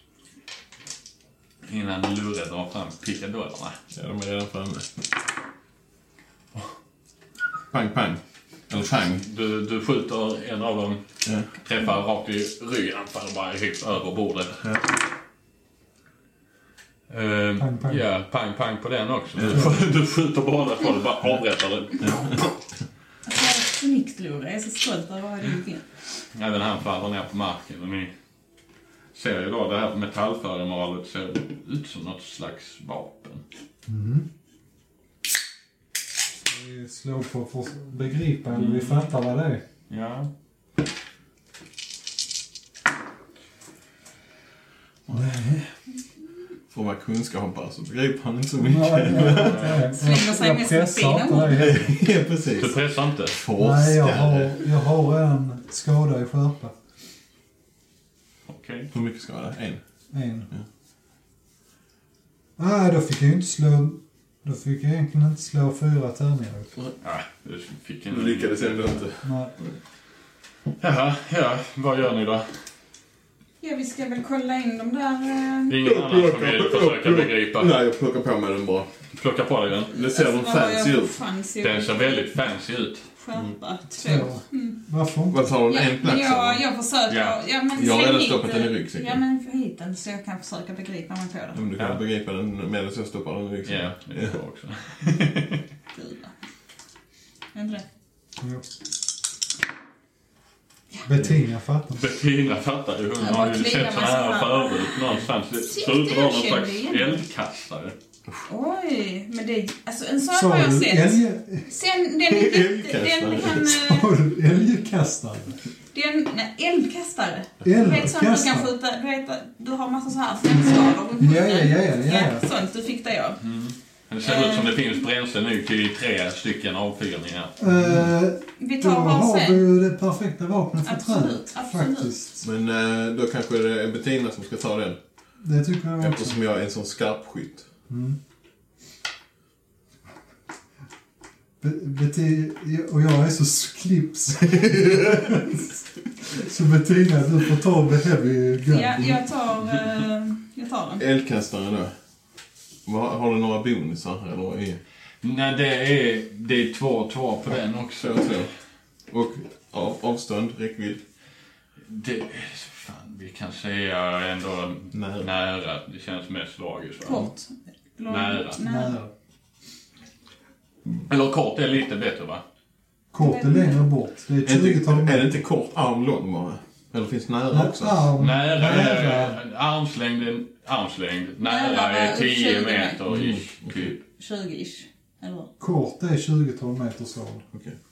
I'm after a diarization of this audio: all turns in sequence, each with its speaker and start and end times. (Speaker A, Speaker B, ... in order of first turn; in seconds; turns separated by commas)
Speaker A: 1.6-3.8, Speaker B: 3.9-4.9, Speaker B: 7.7-9.2, Speaker A: 9.1-14.6, Speaker B: 14.6-14.9, Speaker A: 17.1-22.5, Speaker C: 17.6-18.0, Speaker B: 19.4-19.7, Speaker B: 22.0-22.3, Speaker D: 23.2-25.8, Speaker A: 26.3-28.1, Speaker A: 29.1-33.4, Speaker C: 33.9-34.3, Speaker C: 36.5-39.6, Speaker A: 38.5-39.1, Speaker A: 39.9-40.3, Speaker C: 45.1-45.7, Speaker B: 46.7-49.7, Speaker C: 48.6-51.9, Speaker A: 49.4-49.8, Speaker D: 49.9-51.7, Speaker B: 51.5-52.8, Speaker A: 52.6-53.4, Speaker B: 53.3-54.6, Speaker C: 53.6-56.7, Speaker A: 58.5-58.9, Speaker B: 58.9-59.8, Speaker C: 60.1-60.5, Speaker C: 62.6-66.7, Speaker A: 67.0-69.0, Speaker B: 68.1-69.7, Speaker C: 69.2-69.5, Speaker A: 70.8-72.5, Speaker D: 73.6-75.8, Speaker A: 75.7-77.7, Speaker B: 75.8-78.9, Speaker A: 79.1-79.9, Speaker B: 79.9-81.2, Speaker D: 79.9-82.3, Speaker A: 81.6-83.1, Speaker D: 83.2-84.8, Speaker C: 84.0-85.5, Speaker B: 85.3-86.6, Speaker D: 85.7-91.6, Speaker A: 87.1-87.4, Speaker B: 87.7-89.2, Speaker B: 91.5-94.4, Speaker A: 93.6-95.6, Speaker D: 95.9-96.3, Speaker D: 97.5-97.8, Speaker C: 98.4-98.7, Speaker C: 101.0-102.0, Speaker A: 101.9-108.0, Speaker D: 103.2-107.2, Speaker D: 108.5-114.1, Speaker C: 110.3-111.7, Speaker B: 112.3-113.8, Speaker C: 113.8-115.6, Speaker D: 115.9-123.4, Speaker C: 117.6-118.7, Speaker C: 121.2-122.5, Speaker A: 123.4-127.7, Speaker D: 124.2-125.0, Speaker C: 127.6-132.4, Speaker D: 128.6-129.6, Speaker D: 130.8-132.1, Speaker B: 132.4-135.0, Speaker C: 135.4-136.3, Speaker B: 136.0-137.7, Speaker C: 137.9-138.2, Speaker C: 141.6-145.7, Speaker C: 146.3-149.1, Speaker D: 148.7-151.0, Speaker B: 151.0-151.9, Speaker B: 152.8-154.8, Speaker A: 155.2-158.4, Speaker B: 158.0-158.5, Speaker B: 159.1-161.0, Speaker A: 161.9-167.3, Speaker B: 164.9-165.3, Speaker D: 167.0-169.0, Speaker A: 168.1-168.6, Speaker C: 168.6-169.1, Speaker A: 171.0-172.4, Speaker C: 173.1-175.3, Speaker D: 173.2-173.8, Speaker B: 174.4-178.1, Speaker C: 177.5-179.4, Speaker A: 178.2-184.0, Speaker D: 181.4-183.0, Speaker B: 183.1-183.9, Speaker D: 184.1-185.5, Speaker C: 185.6-187.4, Speaker B: 187.5-187.8